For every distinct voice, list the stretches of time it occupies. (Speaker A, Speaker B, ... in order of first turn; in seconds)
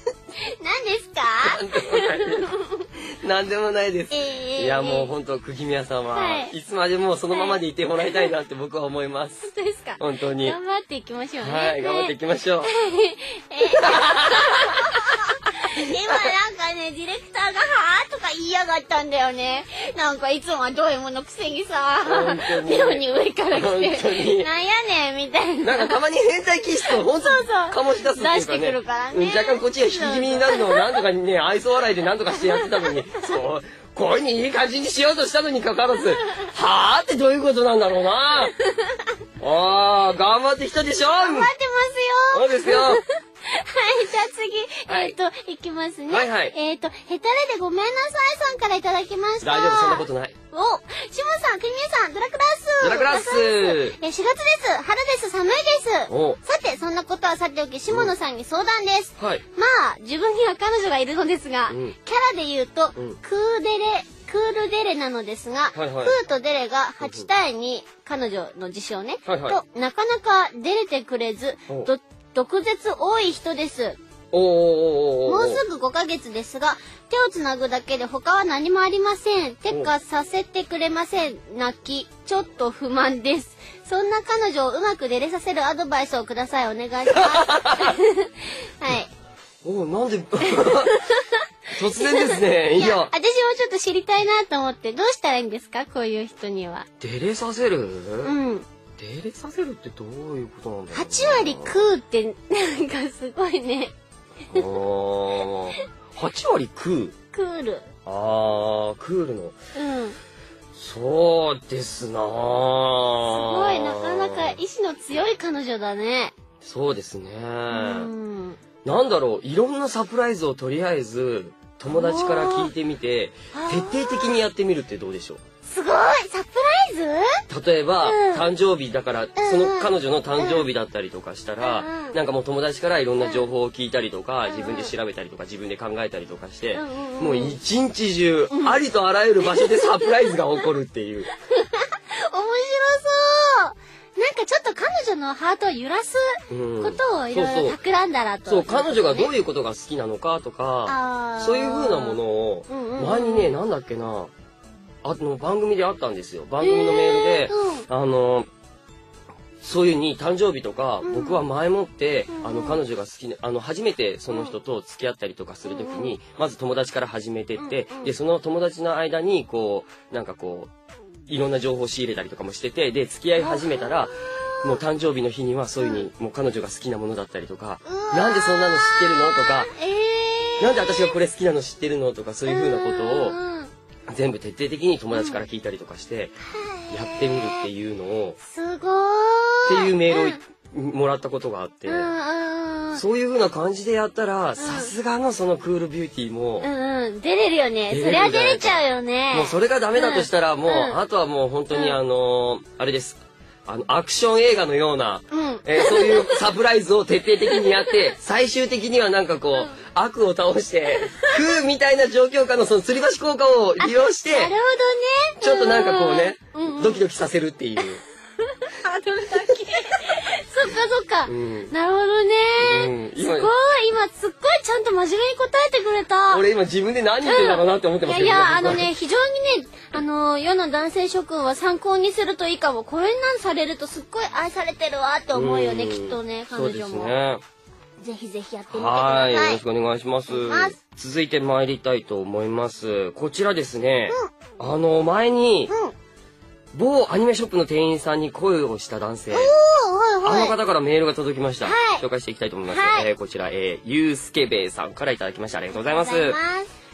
Speaker A: 0.3-2.9, 4.1-5.1, 6.1-6.5, 7.3-8.3, 9.4-26.0, 26.8-31.0, 32.3-33.3, 38.5-39.1, 41.2-74.0, 75.2-89.1, 90.5-96.9, 98.2-98.7, 100.9-103.9, 107.3-107.9, 109.7-110.2, 113.2-116.3, 117.7-118.6, 121.9-122.7, 123.5-124.4, 125.6-127.4, 128.0-128.5, 129.4-130.6, 131.6-132.2, 133.2-133.5, 134.5-134.9, 136.7-137.6, 138.5-138.8, 139.4-140.3, 141.4-149.3, 150.8-153.6, 156.6-157.8, 161.0-161.4, 162.3-162.8, 165.7-166.2, 167.6-168.1, 173.4-174.8, 175.8-176.0, 177.8-181.1, 182.4-183.7, 185.1-185.4, 186.5-187.7, 188.4-190.4, 191.9-193.0, 194.6-194.9, 196.6-201.0, 201.7-202.0, 205.3-206.5, 207.5-207.9, 210.9-211.4, 213.8-217.0, 218.4-226.4, 227.2-237.2, 238.0-239.6, 240.3-240.8, 245.7-245.9, 249.3-250.6, 251.6-252.0, 252.7-253.1, 255.8-256.7
Speaker B: 1.4-10.6, 11.4-12.7, 13.7-15.2, 22.0-24.5, 25.6-38.5, 39.4-41.5, 42.3-43.0, 44.9-45.1, 46.1-46.5, 49.4-50.3, 52.8-54.0, 56.1-56.4, 59.2-59.4, 61.7-62.0, 65.7-66.2, 67.0-67.3, 69.2-69.6, 74.3-75.6, 87.1-87.9, 89.6-91.0, 91.8-93.1, 97.0-98.3, 99.0-101.8, 104.5-107.1, 108.0-109.6, 110.7-114.6, 116.6-118.1, 118.8-125.4, 127.5-141.3, 146.5-147.8, 148.4-154.3, 155.0-158.5, 159.6-170.7, 171.3-179.7, 180.6-183.4, 184.1-186.3, 186.9-188.4, 189.7-192.1, 192.9-196.7, 197.9-214.5, 215.4-218.0, 221.2-221.7, 222.6-223.5, 226.3-228.9, 235.3-237.4, 238.7-245.7, 246.7-249.5, 250.2-256.4